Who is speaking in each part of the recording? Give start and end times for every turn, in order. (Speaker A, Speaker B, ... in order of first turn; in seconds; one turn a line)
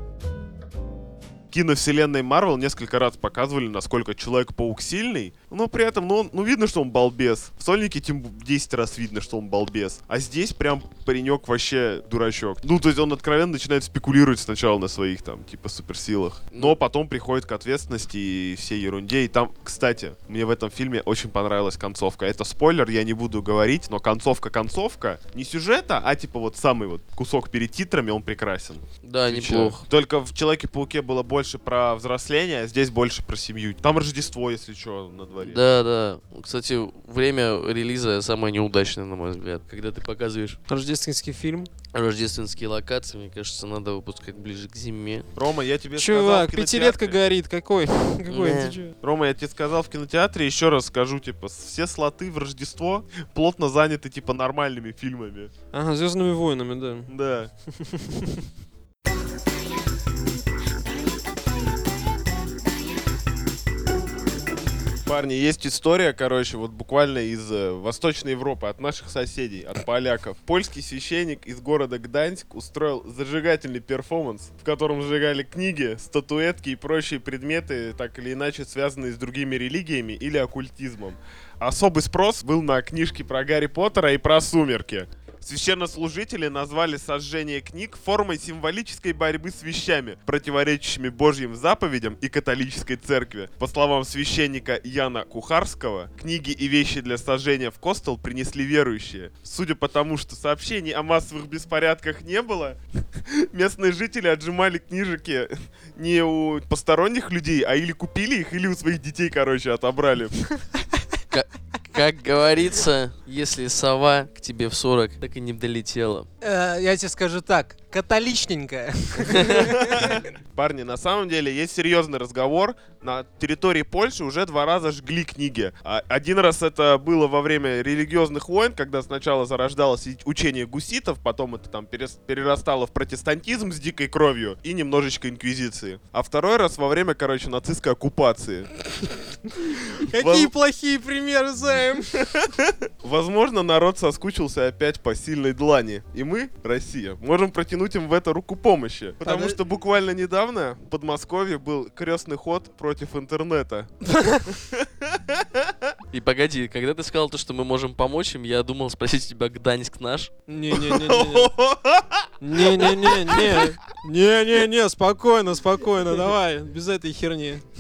Speaker A: 1.5-35.6
Speaker B: 29.0-29.8
Speaker B: 35.4-40.6
Speaker C: 40.7-41.7
Speaker B: 41.9-45.3
Speaker A: 45.3-47.2
Speaker C: 46.0-48.9
Speaker B: 48.3-48.8
Speaker A: 49.0-55.5
Speaker C: 55.7-57.1
Speaker A: 57.1-57.5
Speaker C: 57.8-58.4
Speaker A: 65.0-110.4
Speaker B: 111.3-116.3
Speaker C: 116.4-120.3
Speaker A: 119.2-138.7
Speaker B: 119.3-119.7
Speaker C: 140.0-142.2
Speaker A: 140.1-140.5
Speaker A: 142.3-153.9
Speaker C: 149.2-149.6
Speaker C: 154.1-154.6
Speaker A: 154.6-155.9
Speaker B: 156.1-160.3
Speaker C: 160.5-161.5
Speaker A: 160.7-163.7
Speaker C: 162.4-167.6